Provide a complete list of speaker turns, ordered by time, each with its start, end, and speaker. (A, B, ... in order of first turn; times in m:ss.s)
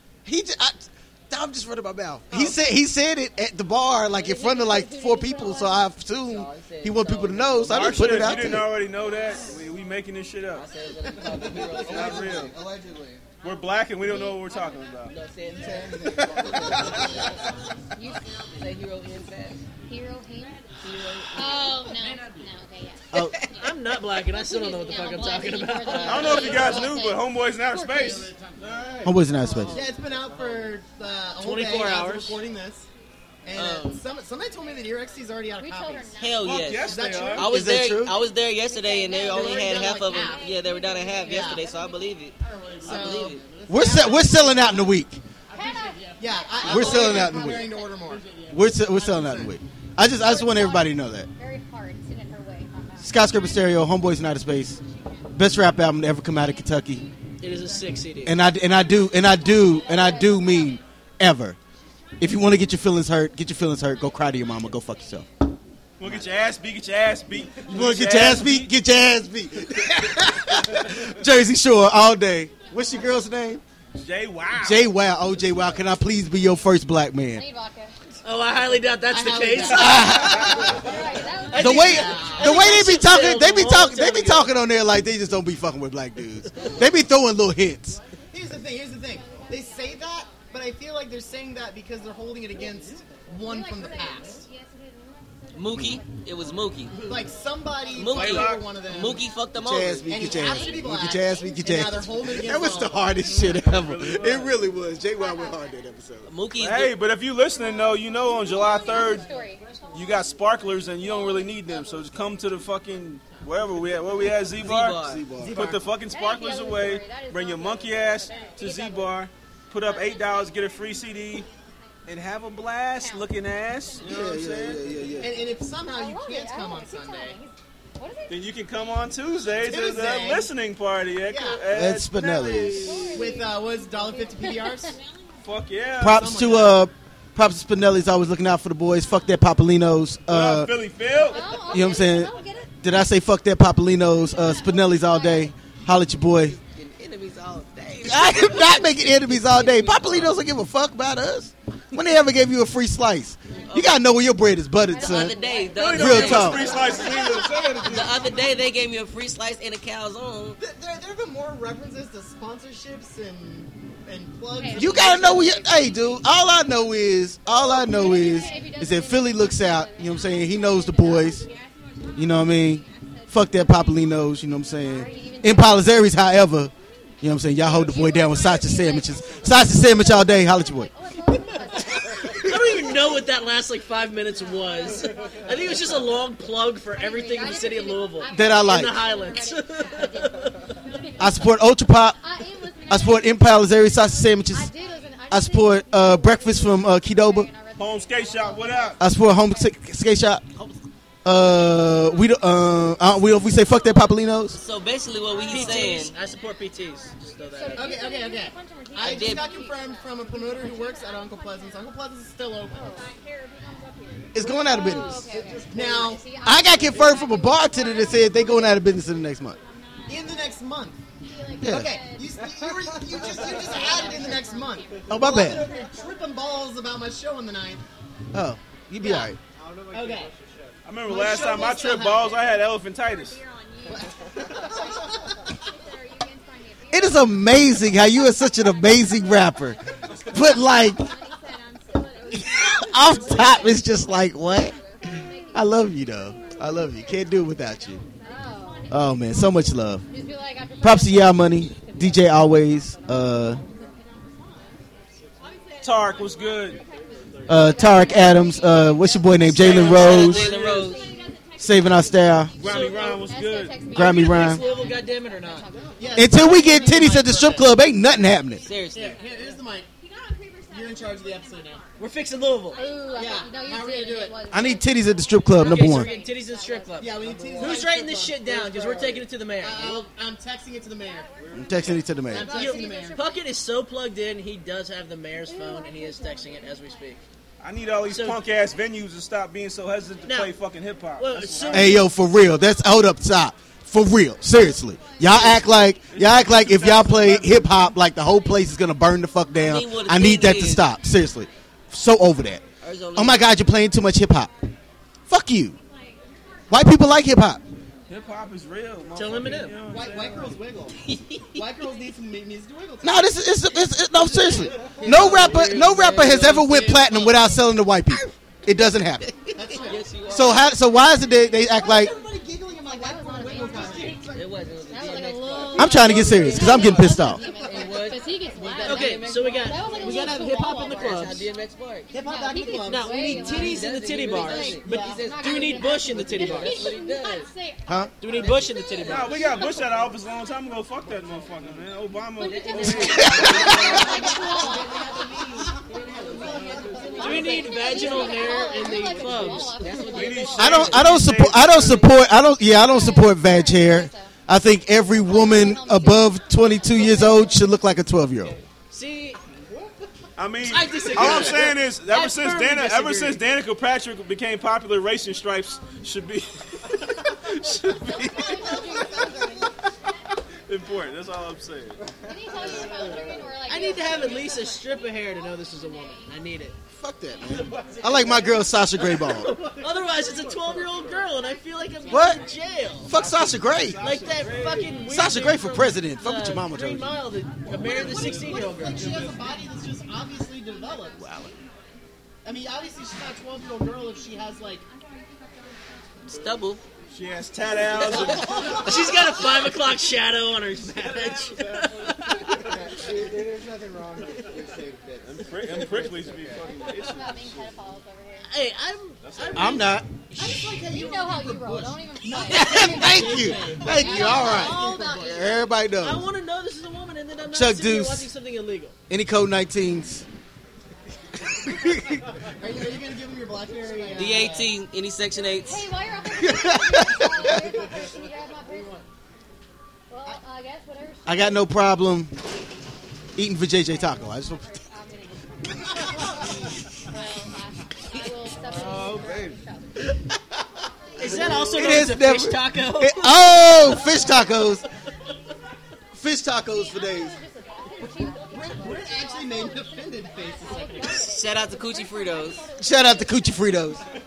0:00.2-0:08.7 A
0:02.3-0:02.6 B
0:04.1-0:05.9 C
0:06.2-0:08.6 D
0:07.7-0:10.7 E
0:10.5-0:12.5 D
0:11.2-0:13.3 F
0:11.8-0:12.6 E
0:13.4-0:15.2 E
0:14.0-0:14.9 C
0:15.1-0:17.3 D
0:15.4-0:17.5 F
0:16.4-0:16.8 E
0:16.7-0:18.8 C
0:18.6-0:19.6 D
0:19.9-0:23.7 C
0:20.8-0:22.4 F
0:23.1-0:23.4 A
0:23.2-0:23.5 D
0:23.6-0:26.7 G
0:24.4-0:28.3 C
0:25.8-0:26.7 D
0:26.0-0:29.2 E
0:28.2-0:30.7 F
0:29.0-0:29.8 A
0:29.4-0:30.0 D
0:29.7-0:32.9 B
0:31.4-0:32.4 G
0:33.4-0:36.2 B
0:33.5-0:34.0 D
0:35.6-0:37.2 C
0:36.2-0:43.4 D
0:36.4-0:37.5 E
0:36.8-0:37.6 B
0:37.4-0:38.2 A
0:38.0-0:42.2 C
0:39.3-0:40.5 B
0:41.3-0:41.6 B
0:42.4-0:44.6 F
0:42.8-0:44.9 B
0:43.7-0:45.2 A
0:45.5-0:48.0 C
0:45.6-0:46.2 F
0:46.2-0:48.3 B
0:46.6-0:47.7 A
0:46.9-0:47.5 F
0:48.0-0:49.3 F
0:48.5-0:51.3 A
0:50.2-0:53.3 C
0:53.0-0:54.8 A
0:55.3-0:57.1 A
0:57.4-0:58.4 G
0:58.2-1:01.6 A
0:59.1-1:00.8 C
1:02.2-1:05.3 A
1:06.0-1:08.7 E
1:07.6-1:13.6 A
1:14.0-1:14.9 E
1:14.6-1:17.4 A
1:17.3-1:17.9 C
1:18.2-1:20.3 G
1:19.1-1:22.8 B
1:19.7-1:20.8 A
1:20.0-1:22.8 C
1:20.2-1:20.6 E
1:21.5-1:24.5 G
1:21.6-1:28.0 A
1:28.3-1:34.4 B
1:33.4-1:35.1 C
1:35.5-1:37.0 D
1:36.9-1:39.3 B
1:38.0-1:40.1 D
1:38.0-1:38.8 E
1:39.6-1:46.3 A
1:40.1-1:43.6 B
1:40.1-1:40.9 C
1:43.6-1:44.6 E
1:45.2-1:45.6 C
1:46.3-1:47.0 D
1:46.6-1:49.3 E
1:47.6-1:52.0 C
1:49.9-2:01.5 E
1:54.6-1:55.2 D
1:54.9-1:55.6 A
1:55.4-1:56.0 B
1:56.0-1:59.2 C
1:59.8-2:01.4 C
2:02.1-2:04.9 E
2:03.0-2:08.6 C
2:04.0-2:05.4 A
2:05.2-2:07.4 B
2:08.3-2:13.3 E
2:09.6-2:10.5 B
2:11.3-2:11.7 B
2:11.7-2:13.1 A
2:12.4-2:15.0 C
2:12.6-2:14.9 B
2:15.4-2:16.7 E
2:16.0-2:20.8 A
2:16.0-2:16.8 B
2:20.3-2:21.6 E
2:21.1-2:22.8 C
2:21.7-2:26.6 A
2:24.2-2:25.5 C
2:26.4-2:30.4 D
2:28.0-2:35.4 A
2:33.7-2:34.0 D
2:34.9-2:38.5 C
2:34.9-2:36.9 D
2:35.8-2:38.1 E
2:36.0-2:36.7 A
2:37.8-2:40.6 D
2:37.8-2:38.2 F
2:40.6-2:45.6 B
2:44.5-2:46.3 C
2:44.8-2:51.5 A
2:47.5-2:51.6 C
2:52.2-3:00.9 A
2:52.9-2:53.7 C
2:54.7-2:56.3 C
2:57.6-3:03.2 C
3:01.9-3:10.6 G
3:04.7-3:06.0 C
3:06.9-3:11.6 C
3:08.3-3:09.0 A
3:11.2-3:12.2 A
3:12.2-3:19.7 C
3:12.9-3:14.7 A
3:15.3-3:17.5 A
3:17.8-3:19.0 E
3:19.0-3:20.4 A
3:20.6-3:20.8 D
3:21.2-3:24.6 A
3:21.4-3:22.2 C
3:23.1-3:24.5 C
3:24.6-3:26.2 D
3:25.3-3:31.4 C
3:25.5-3:28.0 G
3:27.7-3:33.1 B
3:29.0-3:29.5 D
3:32.7-3:33.1 C
3:34.3-3:35.3 A
3:34.4-3:36.2 F
3:34.4-3:39.0 C
3:35.7-3:36.3 B
3:36.4-3:39.6 A
3:40.1-3:41.0 B
3:41.2-3:42.4 C
3:41.6-3:42.0 A
3:41.6-3:47.8 B
3:42.6-3:44.1 F
3:43.1-3:46.1 C
3:45.1-3:45.7 A
3:48.3-3:49.4 A
3:49.0-3:49.3 B
3:49.5-3:51.0 F
3:49.9-3:50.3 B
3:50.8-3:53.4 E
3:51.1-3:52.5 B
3:51.6-3:52.0 C
3:53.4-3:55.1 C
3:53.9-3:55.5 B
3:55.6-3:58.9 C
3:56.9-4:01.1 A
4:00.2-4:05.7 C
4:02.4-4:04.8 A
4:05.5-4:08.0 A
4:08.2-4:09.2 C
4:08.9-4:10.0 A
4:10.0-4:14.6 C
4:10.8-4:13.6 A
4:15.1-4:15.4 F
4:15.6-4:21.8 C
4:15.8-4:16.8 E
4:17.5-4:20.5 A
4:19.5-4:21.0 E
4:19.6-4:21.1 D
4:19.6-4:20.9 G
4:21.6-4:22.6 A
4:22.6-4:23.9 E
4:22.6-4:27.0 C
4:22.6-4:23.2 G
4:23.9-4:24.6 A
4:24.0-4:25.7 G
4:26.0-4:27.8 B
4:26.2-4:28.7 A
4:28.6-4:29.2 D
4:28.9-4:29.9 B
4:30.7-4:31.8 B
4:32.0-4:32.9 G
4:32.7-4:37.2 C
4:33.1-4:34.5 B
4:34.5-4:36.1 A
4:35.6-4:40.0 G
4:37.0-4:38.2 B
4:37.2-4:39.3 F
4:39.6-4:41.3 B
4:39.6-4:40.1 C
4:41.4-4:41.9 F
4:41.5-4:42.5 A
4:42.2-4:43.5 C
4:42.3-4:43.2 B
4:42.5-4:47.2 G
4:45.5-4:46.9 C
4:47.6-4:52.1 E
4:48.0-4:48.4 G
4:50.2-4:50.6 G
4:51.2-4:52.1 G
4:51.7-5:02.6 A
4:55.5-4:57.7 E
4:59.6-5:00.9 D
5:02.8-5:03.5 D
5:03.2-5:04.5 A
5:05.3-5:05.8 A
5:06.7-5:07.6 A
5:08.1-5:10.6 E
5:09.2-5:09.8 G
5:09.8-5:11.0 B
5:11.0-5:11.6 D
5:11.5-5:15.6 B
5:13.0-5:19.3 A
5:14.7-5:15.1 F
5:15.0-5:17.1 G
5:15.2-5:17.4 D
5:18.1-5:18.3 D
5:19.0-5:20.7 D
5:19.5-5:20.1 B
5:20.3-5:22.2 A
5:21.6-5:24.5 B
5:22.8-5:31.4 C
5:24.1-5:30.2 D
5:25.8-5:27.4 A
5:26.5-5:27.9 B
5:28.5-5:29.1 B
5:28.8-5:31.5 G
5:29.8-5:30.8 B
5:30.8-5:32.1 D
5:32.1-5:33.8 B
5:32.1-5:40.1 C
5:32.8-5:37.0 G
5:33.6-5:37.5 D
5:34.8-5:35.2 B
5:37.9-5:38.1 A
5:38.2-5:39.7 G
5:39.1-5:44.0 E
5:41.4-5:41.8 F
5:42.4-5:45.7 C
5:42.4-5:48.4 D
5:42.9-5:44.0 A
5:43.2-5:43.8 G
5:44.0-5:47.7 F
5:46.3-5:51.2 C
5:47.2-5:49.8 G
5:49.8-5:52.1 D
5:50.0-5:52.1 E
5:50.5-5:58.6 A
5:52.6-5:54.3 C
5:55.1-5:57.7 C
5:58.9-5:59.4 G
5:59.5-6:00.1 F
6:00.4-6:09.1 E
6:00.6-6:03.4 G
6:07.6-6:09.8 C
6:10.7-6:12.1 E
6:12.1-6:13.6 F
6:12.2-6:16.4 C
6:13.6-6:16.8 G
6:17.0-6:19.5 A
6:17.4-6:18.8 C
6:17.7-6:18.4 F
6:19.0-6:23.2 G
6:19.8-6:21.0 F
6:22.1-6:22.4 A
6:22.2-6:23.0 C
6:23.1-6:24.0 A
6:23.1-6:25.0 E
6:24.0-6:29.4 G
6:25.1-6:27.2 A
6:27.7-6:31.2 B
6:31.2-6:31.5 A
6:32.4-6:34.8 B
6:36.2-6:36.8 D
6:37.1-6:39.2 E
6:38.4-6:42.8 G
6:38.4-6:39.1 F
6:42.0-6:46.7 F
6:45.2-6:47.6 E
6:46.6-6:48.5 C
6:48.5-6:50.0 G
6:49.2-6:50.0 E
6:49.5-6:50.7 A
6:50.4-6:55.4 B
6:50.8-6:55.6 C
6:52.4-6:56.3 A
6:56.0-6:59.0 G
6:57.5-6:58.3 A
6:59.1-7:00.2 A
7:01.6-7:02.2 A
7:02.6-7:04.8 B
7:04.1-7:05.9 D
7:05.5-7:09.1 C
7:06.4-7:07.7 A
7:07.4-7:08.1 F
7:08.7-7:08.9 F
7:10.1-7:11.8 C
7:11.3-7:12.3 A
7:13.4-7:14.8 A
7:13.7-7:20.2 C
7:18.7-7:19.5 F
7:21.2-7:24.2 G
7:21.2-7:24.8 A
7:21.2-7:21.8 C
7:23.8-7:24.8 C
7:26.1-7:27.4 A
7:26.6-7:34.1 C
7:28.0-7:31.3 B
7:31.1-7:32.6 D
7:32.8-7:34.0 A